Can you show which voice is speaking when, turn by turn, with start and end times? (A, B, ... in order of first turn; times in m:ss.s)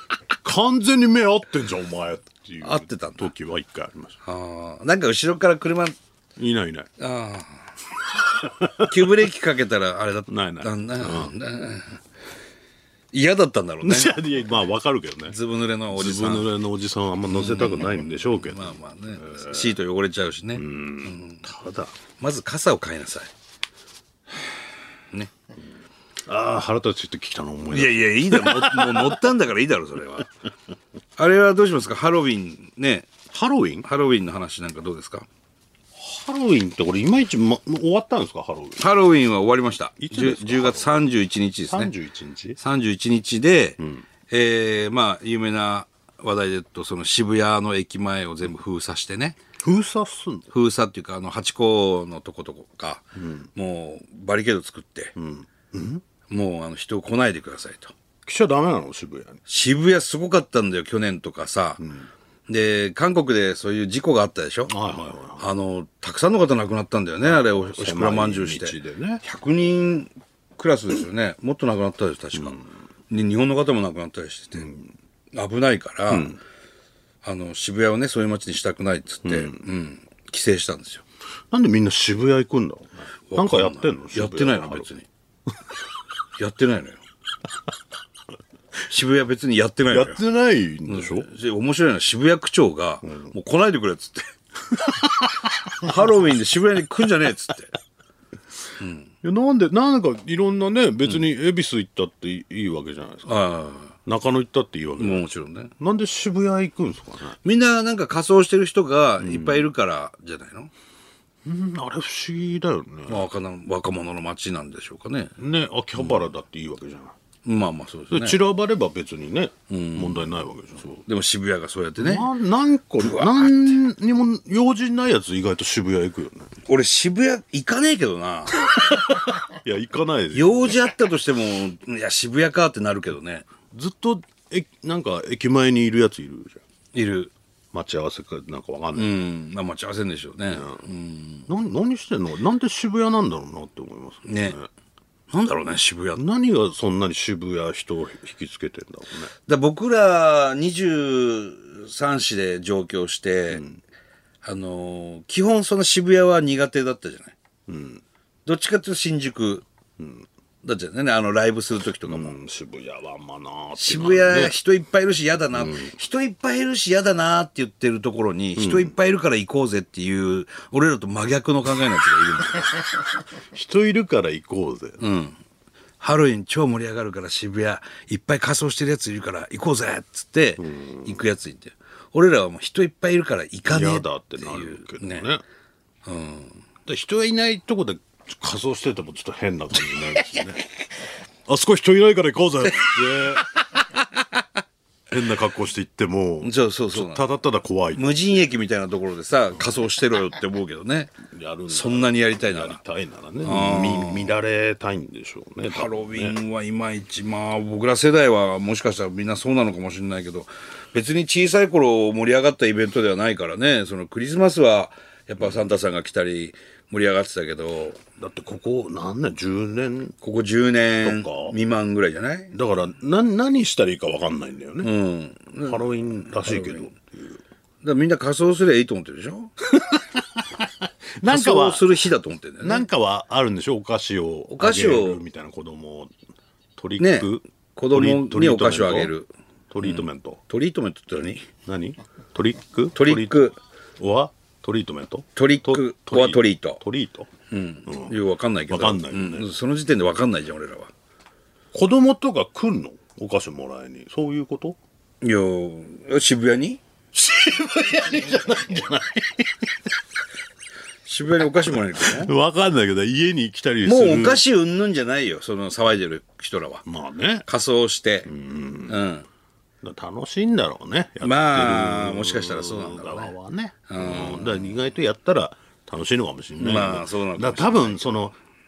0:00.4-0:04.2 A
0:02.6-0:03.3 B
0:04.2-0:06.0 B
0:06.4-0:06.9 A
0:07.0-0:07.7 B
0:08.4-0:08.9 A
0:08.7-0:12.0 B
0:10.3-0:11.3 A
0:13.1-0:14.2 B
0:13.8-0:15.4 A
0:15.3-0:16.5 B
0:15.9-0:19.8 A
0:17.3-0:21.4 B
0:20.5-0:21.9 A
0:22.2-0:23.3 B
0:26.2-0:29.2 A
0:27.7-0:30.3 B
0:31.2-0:33.1 B
0:33.3-0:33.9 A
0:33.8-0:35.3 B
0:35.9-0:38.8 A
0:38.8-0:41.9 B
0:40.0-0:40.9 A
0:41.7-0:42.6 A
0:42.6-0:49.4 B
0:43.8-0:44.0 A
0:49.6-0:50.5 A
0:50.5-0:55.1 B
0:53.2-0:53.5 A
0:55.2-0:56.0 A
0:56.3-0:57.9 B
0:58.2-0:59.4 A
0:59.5-1:01.8 B
1:01.8-1:02.1 A
1:02.5-1:04.7 B
1:04.7-1:05.5 A
1:05.4-1:14.7 B
1:07.2-1:09.2 A
1:12.4-1:12.7 A
1:14.6-1:14.9 A
1:15.3-1:16.4 B
1:16.1-1:16.4 A
1:17.2-1:21.0 B
1:19.2-1:19.6 A
1:21.5-1:24.9 A
1:23.3-1:25.1 B
1:26.4-1:27.0 B
1:28.9-1:30.2 B
1:29.9-1:31.3 A
1:30.9-1:34.3 B
1:35.7-1:37.7 B
1:38.8-1:39.1 B
1:39.2-1:43.3 A
1:43.2-1:44.0 B
1:44.0-1:45.2 A
1:45.0-1:45.7 B
1:45.8-1:47.4 A
1:47.4-1:50.7 B
1:49.2-1:49.7 A
1:51.4-1:53.3 A
1:53.1-1:55.3 B
1:55.4-1:57.1 A
1:56.0-1:56.2 B
1:57.4-1:58.4 B
1:58.1-2:01.0 A
1:59.7-2:00.3 B
2:00.8-2:02.3 B
2:02.0-2:06.5 A
2:03.0-2:03.7 B
2:06.6-2:08.6 B
2:08.7-2:10.9 A
2:10.3-2:13.5 B
2:13.7-2:16.6 A
2:16.9-2:17.3 B
2:17.7-2:19.1 A
2:18.9-2:21.5 B
2:20.5-2:20.8 A
2:21.5-2:24.7 A
2:24.2-2:24.6 B
2:25.3-2:26.2 B
2:26.1-2:29.3 A
2:29.5-2:33.6 B
2:33.5-2:33.8 A
2:34.4-2:37.4 B
2:37.7-2:38.0 A
2:38.4-2:39.6 B
2:40.0-2:40.2 A
2:40.6-2:42.3 B
2:42.0-2:44.5 A
2:43.8-2:52.8 B
2:45.5-2:45.9 A
2:48.6-2:48.9 A
2:53.5-2:55.0 A
2:55.0-2:55.4 B
2:56.0-3:05.3 B
3:00.6-3:01.2 A
3:03.7-3:05.4 A
3:06.0-3:06.7 B
3:06.8-3:10.6 A
3:11.5-3:13.8 A
3:15.1-3:18.2 A
3:16.4-3:17.2 B
3:17.9-3:22.8 B
3:21.3-3:26.4 A
3:23.4-3:24.3 B
3:25.6-3:38.0 B
3:38.2-3:40.2 A
3:40.2-3:42.5 B
3:41.0-3:41.6 A
3:42.5-3:44.9 A
3:44.8-3:45.8 B
3:45.6-3:47.4 A
3:46.3-3:46.9 B
3:47.8-3:49.5 B
3:49.7-3:52.0 A
3:51.2-3:52.8 B
3:52.6-3:56.1 A
3:54.5-3:55.2 B
3:56.8-3:59.1 A
3:57.0-3:59.3 B
3:59.7-4:00.4 A
3:59.8-4:01.5 B
4:01.5-4:07.3 A
4:02.9-4:03.6 B
4:05.4-4:06.8 B
4:07.5-4:10.9 B
4:07.8-4:08.2 A
4:08.7-4:09.5 A
4:11.7-4:14.8 A
4:15.2-4:16.8 B
4:17.1-4:19.8 A
4:21.0-4:22.3 B
4:21.7-4:24.4 A
4:23.8-4:26.8 B
4:26.8-4:27.5 A
4:27.4-4:28.3 B
4:28.2-4:29.0 A
4:28.9-4:29.2 B
4:29.8-4:38.4 A
4:31.2-4:33.3 B
4:33.9-4:34.7 B
4:36.6-4:38.0 B